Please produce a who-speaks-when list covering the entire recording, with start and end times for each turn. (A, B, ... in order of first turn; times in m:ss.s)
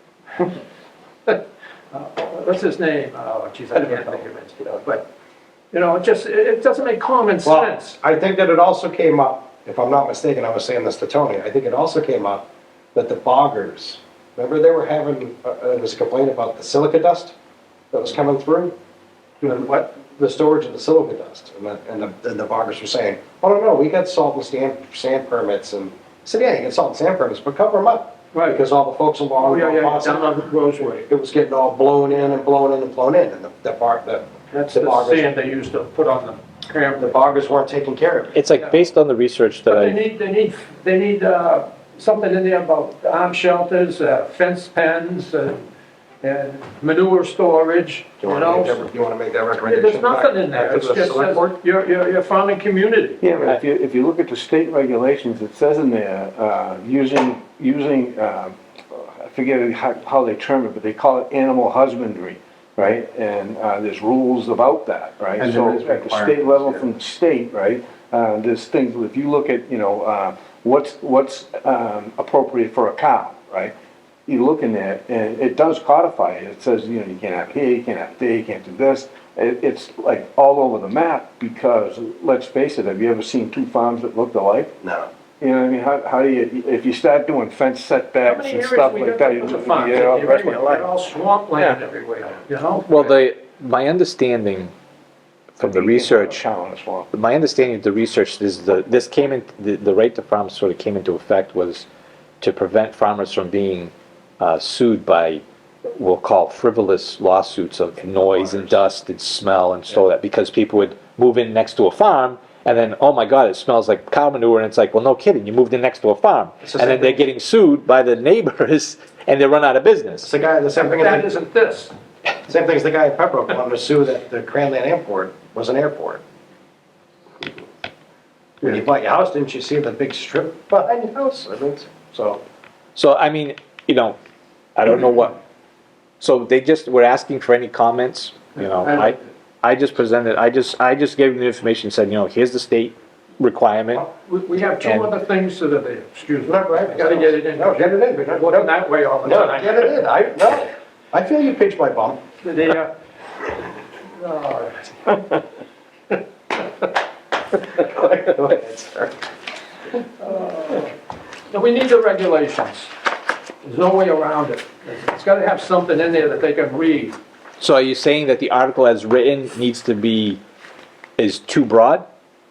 0:01.2-0:05.0 A
0:03.8-0:04.1 B
0:05.7-0:08.0 A
0:07.4-0:17.3 B
0:17.9-0:18.7 B
0:19.4-0:30.3 B
0:28.3-0:28.6 A
0:29.4-0:31.1 A
0:31.1-0:35.3 B
0:34.5-0:37.3 A
0:37.0-0:38.4 B
0:38.3-0:40.0 C
0:39.7-0:45.6 A
0:46.2-0:48.9 A
0:48.2-0:51.5 B
0:49.6-0:53.3 A
0:53.2-1:13.7 D
1:05.4-1:06.8 B
1:14.3-1:24.7 D
1:24.8-1:25.1 B
1:25.4-1:30.8 D
1:28.2-1:33.1 A
1:30.2-1:30.8 B
1:32.9-1:34.7 C
1:35.6-1:36.4 C
1:35.6-1:37.1 D
1:37.1-1:41.8 C
1:42.4-2:00.3 C
1:56.6-1:57.2 B
2:00.2-2:01.3 B
2:00.7-2:01.9 A
2:02.4-2:06.2 B
2:08.6-2:12.4 B
2:13.0-2:14.2 C
2:14.8-2:15.4 C
2:16.2-2:24.1 C
2:18.8-2:19.2 A
2:24.2-2:30.0 A
2:24.8-2:25.1 C
2:26.4-2:28.7 B
2:29.2-2:32.2 B
2:32.4-2:32.9 A
2:34.1-2:35.4 A
2:37.7-2:39.1 B
2:40.2-2:40.9 A
2:41.5-2:42.9 A
2:43.6-2:47.2 A
2:47.6-2:50.4 C
2:51.2-2:52.0 C